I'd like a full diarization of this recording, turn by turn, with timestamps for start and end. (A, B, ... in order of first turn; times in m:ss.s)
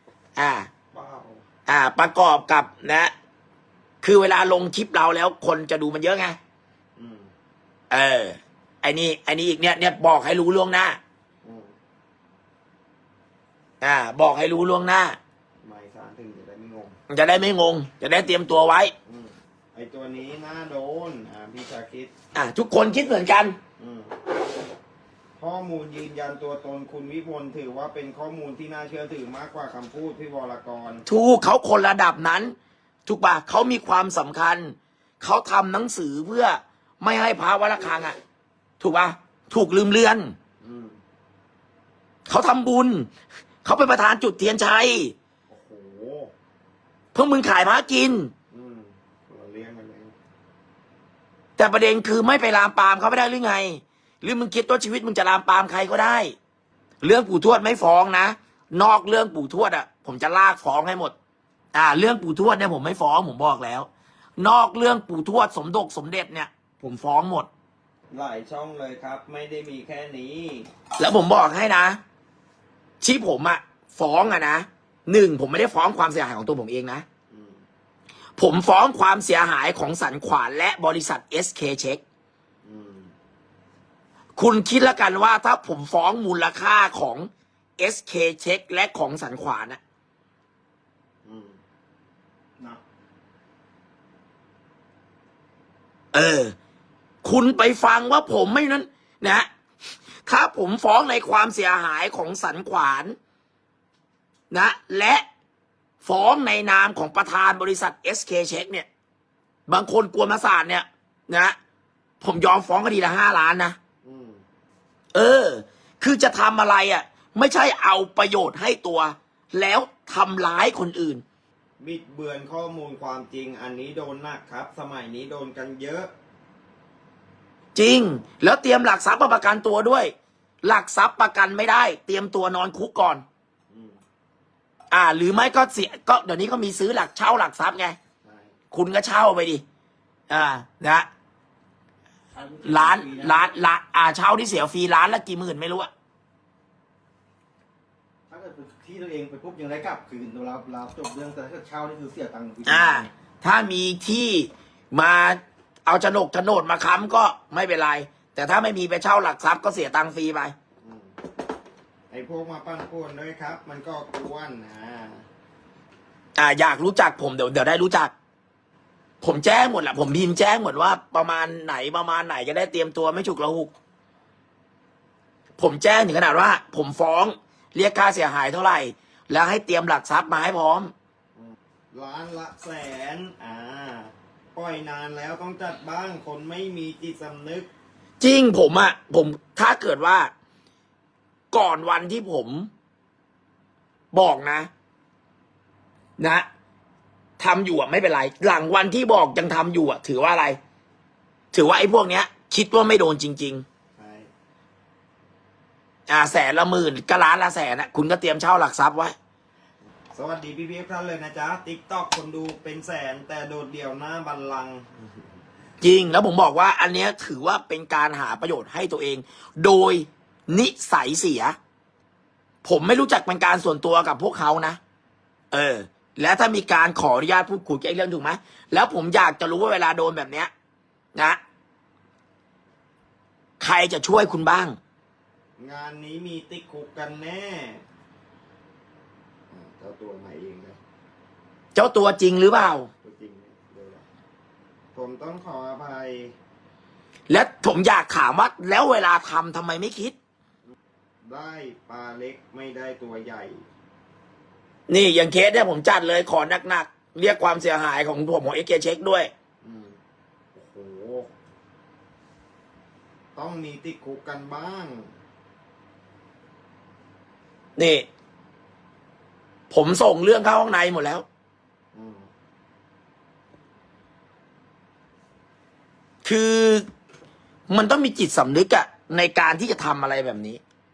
0:00.4-0:00.7 A
0:00.9-0:01.4 B
0:01.7-0:03.1 A
0:04.0-0:06.4 A
0:07.0-0:07.3 B
0:07.9-0:11.0 A
0:11.4-0:11.7 B
0:13.8-0:15.2 A
0:15.6-0:17.0 B
0:17.1-0:18.9 A
0:19.0-0:22.1 B
0:22.3-0:23.6 A
0:23.8-0:24.2 B
0:25.4-0:31.0 B
0:31.0-0:32.5 A
0:33.0-0:38.2 A
0:38.8-0:40.3 A
0:40.6-0:41.0 B
0:42.3-0:43.1 A
0:43.6-0:45.1 A
0:45.5-0:46.3 B
0:47.1-0:48.3 A
0:48.5-0:50.1 B
0:51.6-0:56.3 A
0:57.0-1:01.1 A
1:01.7-1:07.5 A
1:08.1-1:10.7 B
1:11.0-1:12.0 A
1:13.0-1:17.0 A
1:17.3-1:17.6 B
1:18.4-1:22.0 A
1:22.6-1:23.1 B
1:24.4-1:29.8 A
1:31.2-1:31.6 B
1:36.1-1:36.5 A
1:37.2-1:39.5 A
1:40.2-1:43.2 A
1:44.5-1:45.2 A
1:46.0-1:48.8 A
1:49.7-1:51.6 A
1:52.2-1:53.8 A
1:54.0-1:54.4 B
1:55.1-2:01.2 A
2:01.8-2:06.1 B
2:07.7-2:13.2 A
2:13.7-2:14.0 B
2:14.9-2:18.0 A
2:18.2-2:18.5 B
2:18.7-2:19.6 A
2:20.3-2:21.1 A
2:22.3-2:23.4 C
2:22.6-2:25.9 A
2:28.3-2:33.0 C
2:32.6-2:40.5 A
2:40.8-2:41.2 B
2:42.1-2:45.2 B
2:46.4-2:48.1 A
2:49.2-2:53.7 A
2:55.6-3:00.9 A
3:01.4-3:07.7 B
3:08.2-3:10.3 A
3:11.5-3:12.7 A
3:14.1-3:14.7 A
3:16.2-3:16.4 A
3:17.4-3:20.6 A
3:21.5-3:23.6 A
3:24.0-3:24.3 B
3:26.1-3:29.1 A
3:30.1-3:35.1 B
3:35.8-3:41.6 A
3:42.6-3:44.8 A
3:45.5-3:50.5 A
3:53.6-3:54.8 A
3:55.6-3:57.8 B
3:59.5-4:00.8 B
4:01.7-4:02.9 A
4:03.0-4:04.0 B
4:04.9-4:06.3 B
4:07.3-4:10.1 A
4:11.2-4:13.6 B
4:14.9-4:19.3 A
4:19.6-4:20.0 B
4:20.5-4:21.3 B
4:23.4-4:25.1 B
4:27.8-4:28.0 A
4:29.7-4:31.2 A
4:31.9-4:32.3 B
4:36.2-4:36.8 A
4:37.7-4:40.6 A